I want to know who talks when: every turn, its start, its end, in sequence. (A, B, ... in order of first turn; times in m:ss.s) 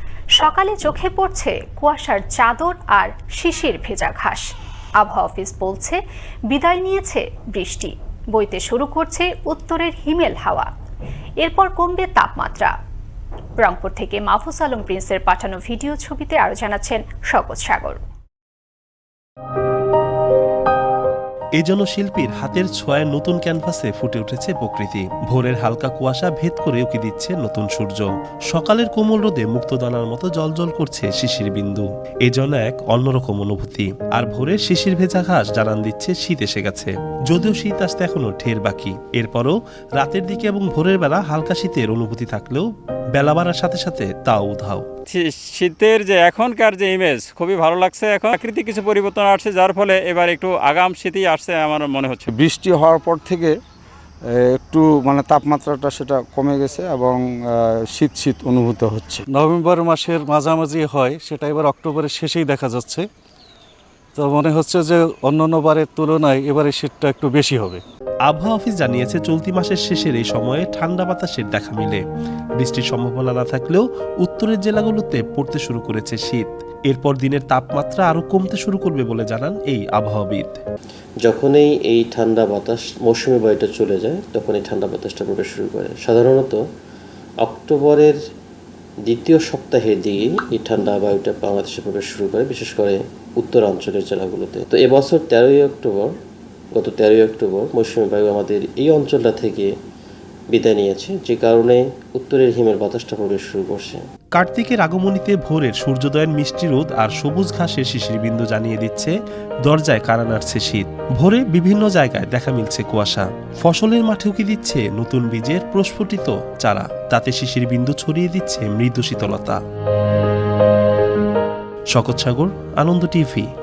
0:00.3-0:04.4 A
0:05.0-0:10.7 A
0:11.4-0:12.7 A
0:13.6-0:18.0 A
0:21.6-0:44.8 B
0:45.1-0:52.3 C
0:52.3-0:53.6 D
0:54.3-0:59.2 D
0:59.3-1:03.1 E
1:04.2-1:07.8 E
1:08.3-1:12.0 B
1:12.6-1:20.6 B
1:21.2-1:26.6 F
1:27.4-1:28.2 F
1:29.0-1:36.1 F
1:36.8-1:39.7 F
1:40.5-1:44.0 F
1:44.4-1:59.6 B
2:01.9-2:03.5 B